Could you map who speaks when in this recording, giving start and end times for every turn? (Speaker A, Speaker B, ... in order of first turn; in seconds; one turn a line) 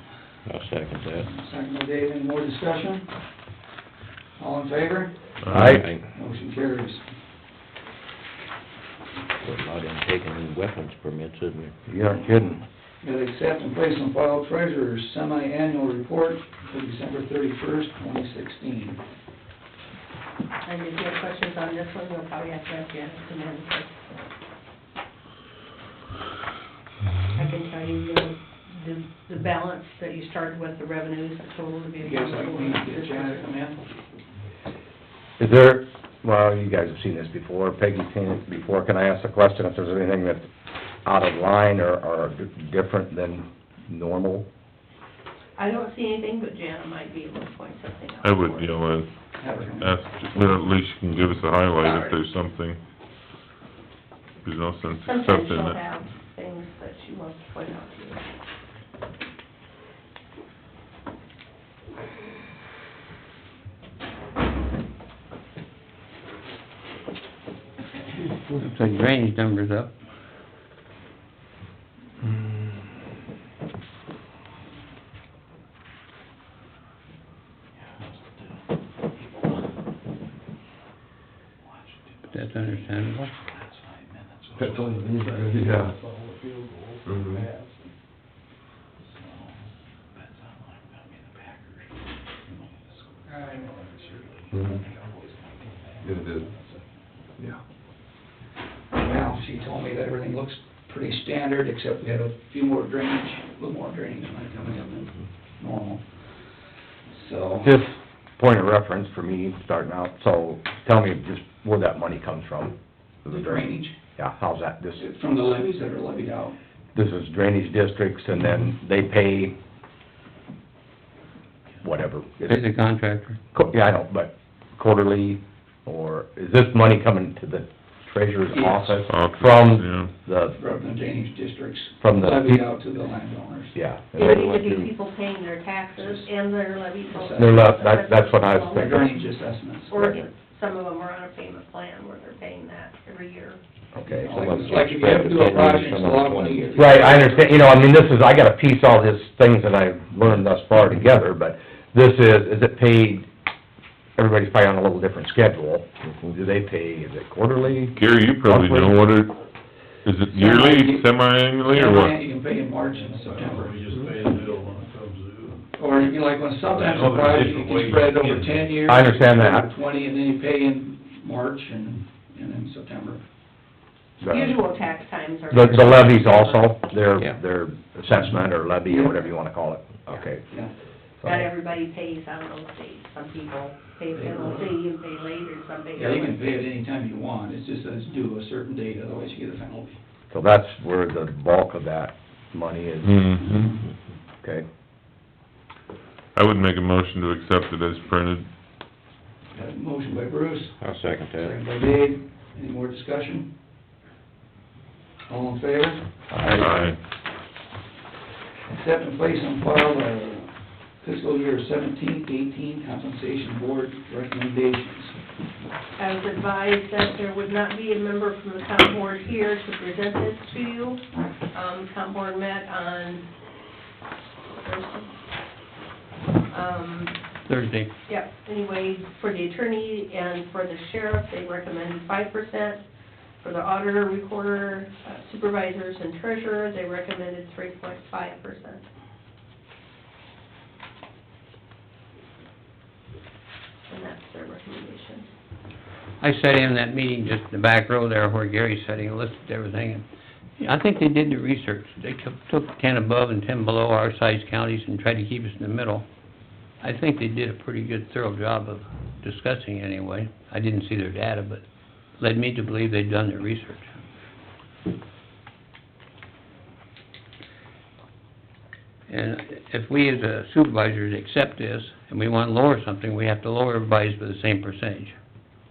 Speaker A: 0.5-1.3
Speaker B: 1.2-3.1
Speaker B: 4.4-5.5
Speaker C: 5.4-5.8
Speaker D: 5.5-5.8
Speaker A: 5.5-6.0
Speaker B: 6.1-7.0
Speaker A: 9.4-11.7
Speaker D: 11.9-12.6
Speaker B: 13.0-19.0
Speaker E: 20.6-23.9
Speaker E: 27.3-33.4
Speaker B: 32.0-33.8
Speaker D: 35.4-40.5
Speaker D: 41.0-44.5
Speaker E: 45.6-48.7
Speaker C: 48.2-49.1
Speaker B: 49.4-50.0
Speaker C: 49.7-52.8
Speaker E: 51.8-52.1
Speaker C: 54.4-55.8
Speaker E: 55.0-58.2
Speaker F: 68.5-69.9
Speaker B: 78.0-78.5
Speaker B: 81.6-85.0
Speaker F: 82.3-83.3
Speaker G: 84.6-87.6
Speaker D: 85.3-85.8
Speaker B: 89.0-89.6
Speaker B: 90.1-96.8
Speaker B: 98.9-106.2
Speaker B: 107.1-107.7
Speaker D: 107.6-112.7
Speaker D: 113.2-115.0
Speaker B: 113.3-114.0
Speaker B: 115.0-116.5
Speaker D: 116.9-119.5
Speaker D: 121.8-122.6
Speaker F: 122.5-123.4
Speaker D: 123.5-130.6
Speaker B: 128.5-129.0
Speaker C: 129.1-130.1
Speaker B: 130.5-133.8
Speaker D: 132.0-132.6
Speaker D: 133.7-134.4
Speaker E: 134.1-139.2
Speaker A: 134.3-134.8
Speaker B: 135.9-136.3
Speaker B: 137.1-137.8
Speaker D: 137.3-139.1
Speaker B: 138.7-139.9
Speaker E: 139.9-143.6
Speaker D: 139.9-140.2
Speaker D: 143.9-153.3
Speaker B: 144.0-147.9
Speaker A: 144.4-146.7
Speaker D: 154.2-159.0
Speaker C: 157.9-159.4
Speaker C: 160.0-162.2
Speaker B: 160.3-161.1
Speaker B: 161.6-163.8
Speaker G: 162.8-165.7
Speaker B: 165.8-173.2
Speaker G: 166.6-168.8
Speaker D: 168.8-169.7
Speaker D: 174.2-174.6
Speaker E: 174.2-176.6
Speaker D: 175.5-180.4
Speaker B: 178.1-179.3
Speaker D: 181.2-181.5
Speaker E: 181.2-186.5
Speaker B: 184.1-184.8
Speaker B: 185.9-190.0
Speaker D: 190.3-193.3
Speaker C: 193.0-193.8
Speaker B: 193.5-193.8
Speaker C: 196.3-198.5
Speaker B: 199.5-203.5
Speaker A: 200.8-201.6
Speaker B: 205.3-206.8
Speaker D: 206.3-206.8
Speaker C: 206.5-207.0
Speaker B: 208.7-215.2
Speaker E: 216.0-223.2
Speaker E: 224.5-225.1
Speaker E: 226.5-227.2
Speaker F: 227.4-227.9
Speaker E: 228.1-232.8
Speaker E: 233.4-238.8
Speaker E: 243.9-245.2
Speaker F: 246.2-250.0
Speaker F: 250.6-256.0
Speaker F: 256.8-261.6
Speaker F: 262.2-263.9
Speaker F: 269.1-275.2